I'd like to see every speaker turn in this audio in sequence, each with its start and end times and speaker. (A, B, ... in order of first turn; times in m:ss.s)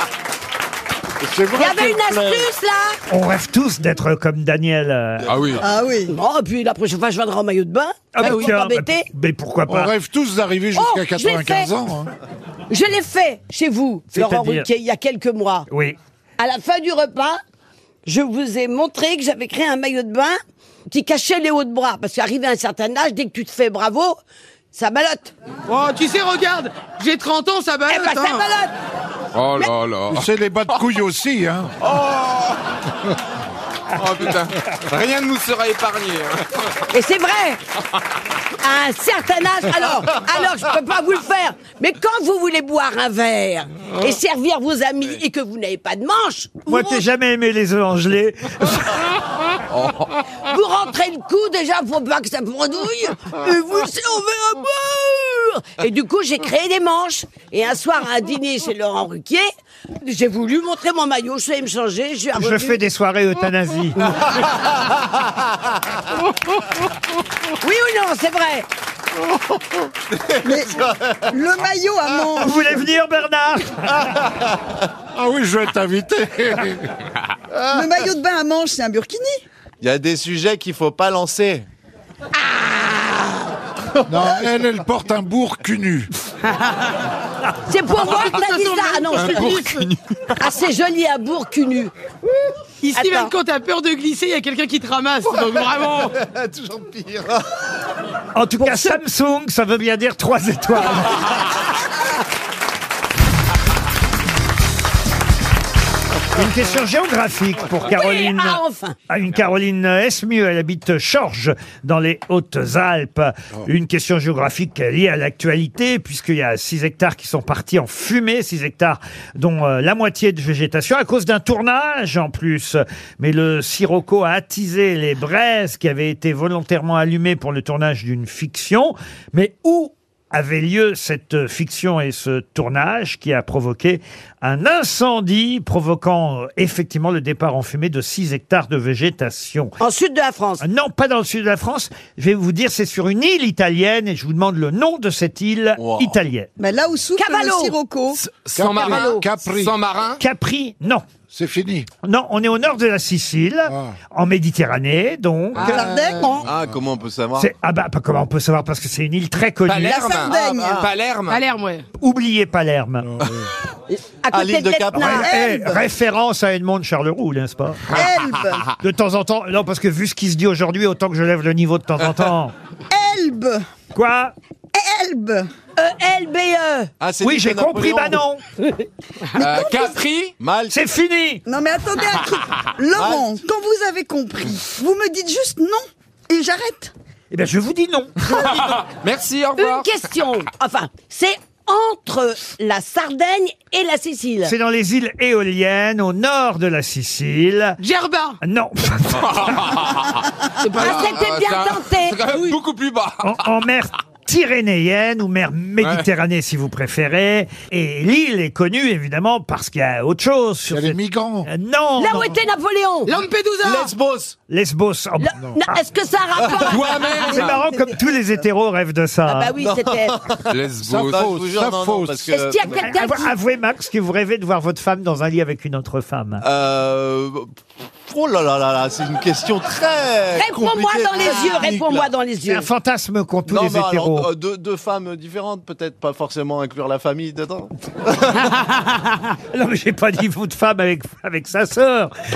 0:01.2-0:02.5 A
0:01.5-0:03.0 B
0:03.1-0:05.3 C
0:05.3-0:05.6 D
0:05.6-0:06.1 E
0:06.1-0:09.1 B
0:08.1-0:09.9 C
0:08.2-0:08.5 F
0:09.7-0:12.1 A
0:10.7-0:11.7 B
0:12.7-0:15.7 B
0:14.1-0:14.7 C
0:15.7-0:16.0 C
0:16.4-0:17.4 B
0:18.0-0:24.2 B
0:24.7-0:25.3 B
0:25.7-0:28.5 F
0:27.9-0:28.7 B
0:29.3-0:30.3 D
0:30.1-0:31.7 A
0:31.8-0:32.6 D
0:33.9-0:36.5 D
0:36.9-0:37.6 B
0:38.6-0:47.0 B
0:46.7-0:49.0 C
0:49.7-0:50.1 D
0:50.4-0:59.5 B
1:00.0-1:02.8 B
1:02.3-1:04.2 C
1:07.6-1:08.7 B
1:10.1-1:11.3 G
1:10.4-1:12.8 E
1:12.4-1:14.1 C
1:14.0-1:14.6 G
1:15.1-1:16.9 A
1:17.5-1:17.8 G
1:17.7-1:19.4 E
1:19.8-1:21.6 G
1:22.5-1:22.9 B
1:24.1-1:26.1 A
1:26.4-1:27.0 F
1:27.7-1:29.6 B
1:28.0-1:29.9 F
1:29.2-1:29.9 D
1:30.4-1:31.9 B
1:32.8-1:36.2 F
1:33.0-1:33.3 B
1:35.4-1:37.4 G
1:38.3-1:41.4 C
1:38.6-1:39.0 B
1:46.3-2:19.8 C
1:47.8-1:48.9 B
2:19.8-2:20.6 B
2:20.6-2:26.5 C
2:25.8-2:26.2 G
2:26.6-2:28.2 E
2:27.2-2:27.8 B
2:28.2-2:30.2 D
2:28.5-2:29.8 A
2:28.7-2:29.2 B
2:30.2-2:31.0 C
2:31.3-2:31.9 A
2:32.0-2:35.9 C
2:33.7-2:34.0 A
2:35.6-2:36.4 E
2:35.9-2:36.3 F
2:36.4-2:37.5 G
2:37.4-2:40.0 C
2:39.6-2:41.4 D
2:39.8-2:40.9 E
2:40.4-2:40.9 G
2:41.3-2:41.8 F
2:42.0-2:43.1 C
2:43.0-2:43.5 A
2:43.9-2:45.3 B
2:44.3-2:45.2 G
2:45.0-2:47.9 C
2:45.0-2:45.8 E
2:47.9-2:48.6 E
2:48.8-2:52.5 C
2:52.9-2:53.6 E
2:53.9-2:54.3 C
2:54.7-2:55.5 E
2:55.8-2:56.9 B
2:57.0-2:58.2 G
2:57.2-2:58.4 C
2:59.3-3:00.0 E
2:59.4-3:00.3 D
3:00.4-3:00.7 G
3:00.7-3:01.4 C
3:01.4-3:06.9 E
3:02.9-3:03.2 G
3:07.3-3:08.3 C
3:08.3-3:09.9 D
3:09.6-3:14.5 B
3:14.4-3:17.8 C
3:17.8-3:18.4 F
3:18.4-3:19.8 C
3:19.2-3:23.4 D
3:20.6-3:21.2 F
3:20.7-3:22.3 B
3:23.2-3:32.4 C
3:25.8-3:26.0 D
3:30.7-3:31.5 A
3:32.0-3:33.1 B
3:33.0-3:33.9 F
3:33.6-3:34.4 G
3:34.5-3:35.8 C
3:35.2-3:37.1 B
3:36.4-3:36.7 G
3:36.6-3:37.6 D
3:37.2-3:38.3 E
3:37.2-3:39.5 C
3:39.2-3:40.2 B
3:39.6-3:42.9 G
3:40.5-3:41.3 D
3:40.8-3:42.4 A
3:42.3-3:43.3 B
3:42.6-3:46.4 C
3:46.4-3:47.5 G
3:48.1-3:52.1 G
3:50.3-3:52.7 B
3:52.4-3:54.3 C
3:53.5-3:58.5 G
3:59.5-4:02.1 C